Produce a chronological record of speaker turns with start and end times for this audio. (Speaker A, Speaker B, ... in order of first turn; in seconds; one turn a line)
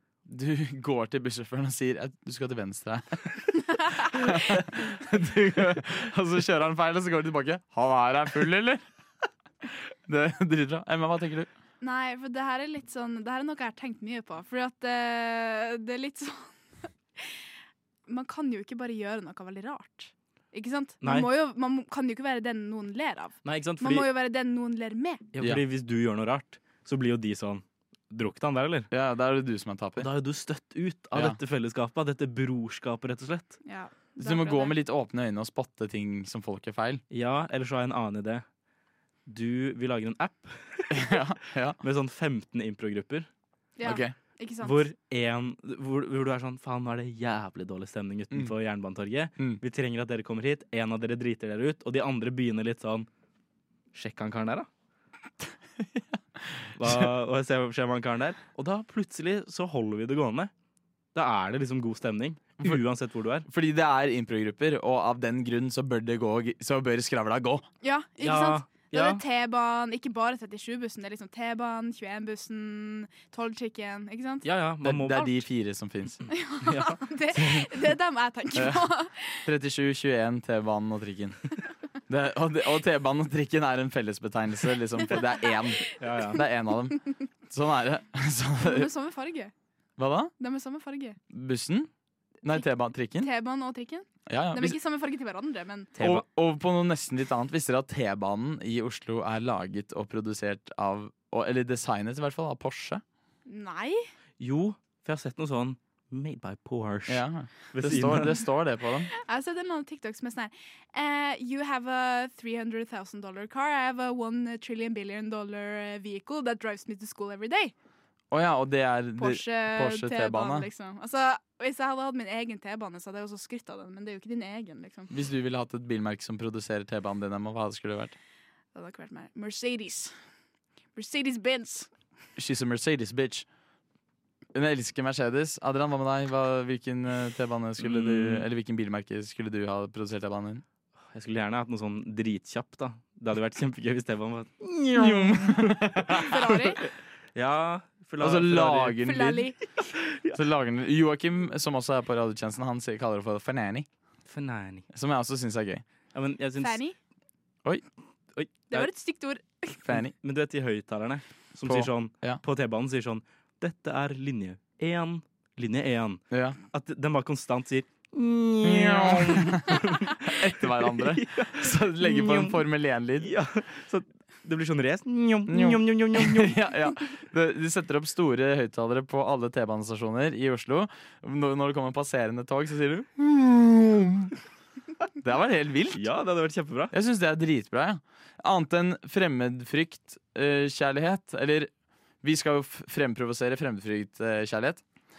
Speaker A: 0.3-8.8
Speaker A: 9.6-11.5
Speaker B: 11.8-17.4
Speaker B: 18.1-25.2
Speaker C: 21.0-21.3
Speaker C: 23.4-24.1
Speaker C: 25.3-28.9
Speaker A: 28.9-30.1
Speaker C: 30.0-33.6
Speaker A: 31.1-31.4
Speaker B: 33.6-34.8
Speaker A: 34.2-37.0
Speaker C: 37.1-38.4
Speaker C: 39.3-41.2
Speaker A: 40.9-41.8
Speaker C: 41.8-43.3
Speaker B: 43.8-44.9
Speaker A: 43.8-44.1
Speaker C: 44.6-53.1
Speaker C: 53.9-54.7
Speaker C: 56.8-60.5
Speaker C: 61.1-63.5
Speaker A: 63.5-67.7
Speaker B: 67.8-74.5
Speaker C: 68.2-69.2
Speaker C: 74.4-75.4
Speaker A: 74.8-76.2
Speaker B: 76.3-79.5
Speaker C: 76.6-77.0
Speaker A: 77.4-77.7
Speaker A: 78.5-78.8
Speaker A: 79.5-81.4
Speaker A: 82.1-88.9
Speaker B: 85.2-86.0
Speaker C: 86.0-86.4
Speaker B: 88.6-89.5
Speaker A: 90.0-90.3
Speaker B: 90.4-91.2
Speaker A: 91.3-91.9
Speaker A: 92.4-93.3
Speaker B: 93.2-95.9
Speaker A: 94.3-94.8
Speaker C: 96.0-96.2
Speaker A: 96.0-103.0
Speaker B: 103.5-104.1
Speaker C: 104.4-108.4
Speaker A: 107.1-109.1
Speaker B: 109.1-117.7
Speaker A: 118.3-120.7
Speaker B: 119.2-125.1
Speaker A: 125.1-128.2
Speaker B: 128.7-130.1
Speaker B: 130.9-131.9
Speaker A: 132.4-133.4
Speaker A: 134.5-140.6
Speaker C: 137.8-138.5
Speaker C: 141.1-146.3
Speaker A: 144.9-146.6
Speaker B: 146.2-146.8
Speaker C: 147.3-149.0
Speaker A: 148.2-149.5
Speaker B: 149.0-149.7
Speaker C: 149.9-150.4
Speaker A: 150.3-153.9
Speaker C: 154.3-154.9
Speaker A: 154.9-155.8
Speaker C: 156.1-156.8
Speaker B: 156.6-156.9
Speaker C: 158.3-158.9
Speaker B: 158.7-159.8
Speaker A: 159.8-160.1
Speaker C: 159.9-172.6
Speaker A: 161.7-162.4
Speaker A: 166.3-166.6
Speaker A: 168.6-173.3
Speaker C: 173.2-176.6
Speaker A: 175.5-184.3
Speaker A: 185.2-186.0
Speaker C: 185.9-186.9
Speaker A: 186.9-191.7
Speaker A: 192.2-194.8